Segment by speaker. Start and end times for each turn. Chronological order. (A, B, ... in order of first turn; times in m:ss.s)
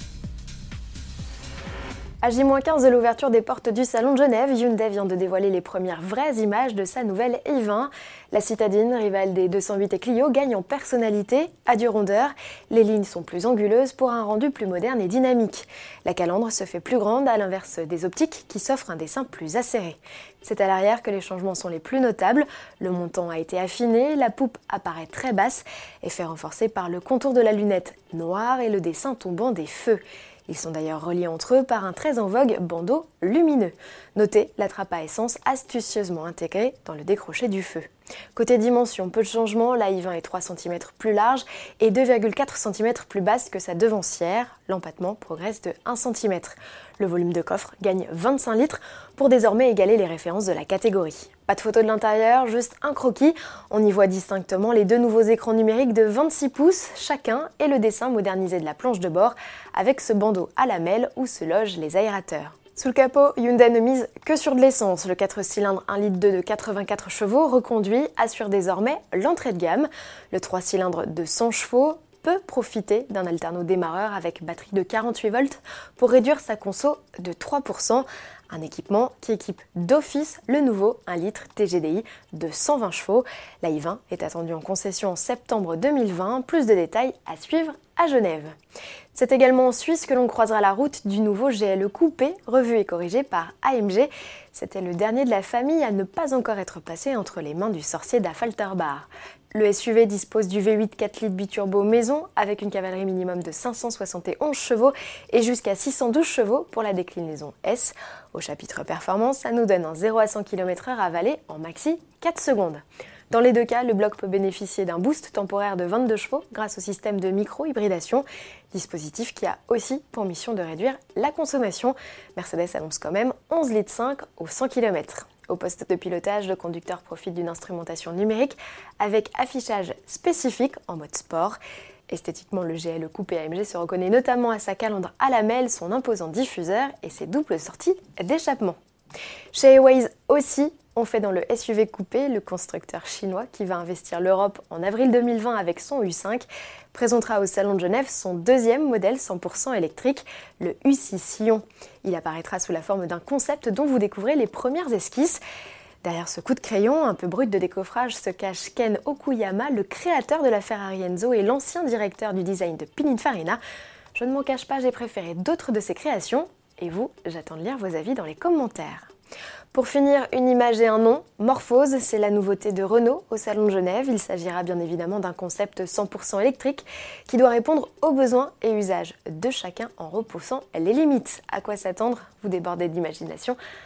0:02.2-1:28.5 A
1:29.1-2:11.6 A
2:12.1-2:18.8 A
2:19.5-2:35.4 A
2:36.0-2:43.6 A
2:44.2-2:49.1 A
2:49.7-3:03.6 A